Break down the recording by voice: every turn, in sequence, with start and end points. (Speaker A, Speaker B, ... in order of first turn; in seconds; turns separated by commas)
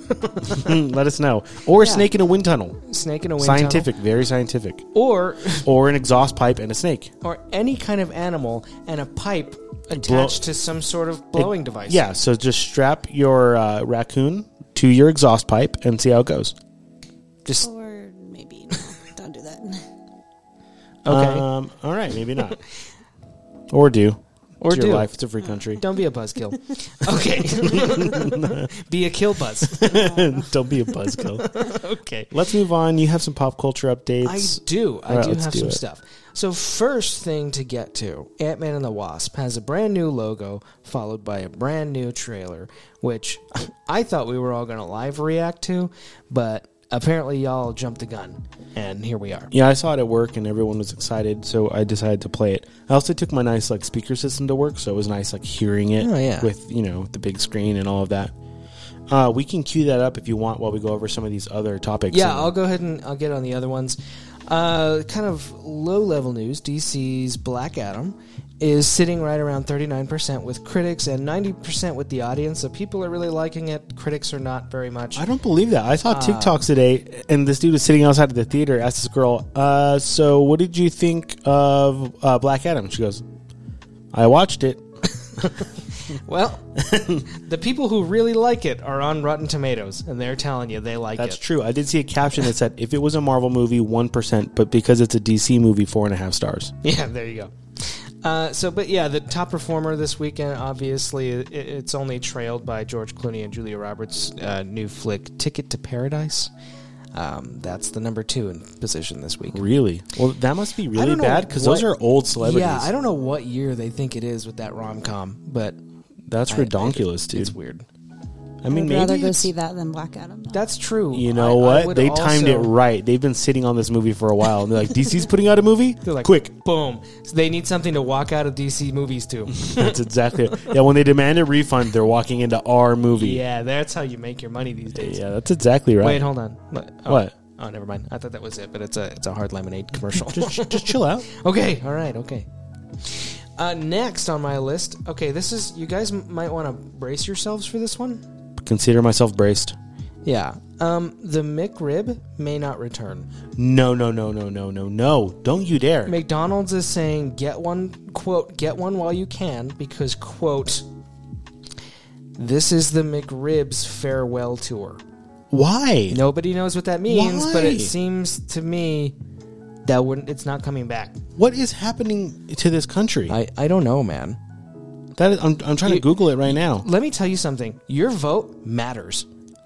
Speaker A: 0.3-0.7, Speaker B: 0.4-2.8, Speaker A: 1.8-2.1, Speaker A: 2.8-3.9, Speaker B: 3.4-4.9, Speaker A: 4.9-5.7, Speaker B: 5.6-7.1, Speaker A: 7.2-12.1, Speaker B: 9.9-10.4, Speaker B: 11.3-16.5, Speaker C: 17.6-19.8, Speaker A: 21.0-21.5, Speaker B: 21.1-22.6, Speaker B: 23.7-25.8, Speaker A: 24.6-25.1, Speaker A: 25.8-30.0, Speaker B: 27.6-28.7, Speaker B: 29.7-31.6, Speaker C: 29.9-30.4, Speaker A: 31.4-32.3, Speaker B: 32.3-35.8, Speaker A: 34.2-49.5, Speaker B: 49.5-58.3, Speaker A: 56.0-56.5, Speaker B: 59.1-62.5, Speaker A: 62.1-75.2, Speaker B: 75.1-83.2, Speaker A: 76.1-76.6, Speaker B: 84.1-84.8, Speaker A: 85.4-86.7, Speaker B: 86.8-87.2, Speaker A: 87.2-91.4, Speaker B: 91.2-96.7, Speaker A: 96.8-106.5, Speaker A: 107.1-109.6, Speaker B: 109.5-112.9, Speaker A: 110.9-115.8, Speaker B: 116.3-117.5, Speaker A: 116.5-117.8, Speaker B: 118.6-119.5, Speaker C: 118.7-120.7, Speaker A: 120.5-122.7, Speaker B: 121.1-126.5, Speaker A: 126.0-130.0, Speaker B: 129.6-133.4, Speaker A: 133.1-135.2, Speaker B: 134.9-136.3, Speaker A: 136.0-142.5, Speaker B: 137.1-137.3, Speaker B: 140.1-141.3, Speaker A: 143.0-148.2, Speaker B: 148.6-149.8, Speaker A: 150.2-153.3, Speaker B: 153.6-156.2, Speaker A: 156.1-160.8, Speaker A: 162.4-165.0, Speaker B: 165.5-166.2, Speaker A: 166.1-169.1, Speaker B: 167.1-167.9, Speaker A: 169.8-171.2, Speaker B: 171.3-173.3, Speaker A: 173.3-174.4, Speaker B: 175.2-176.8, Speaker A: 175.8-179.2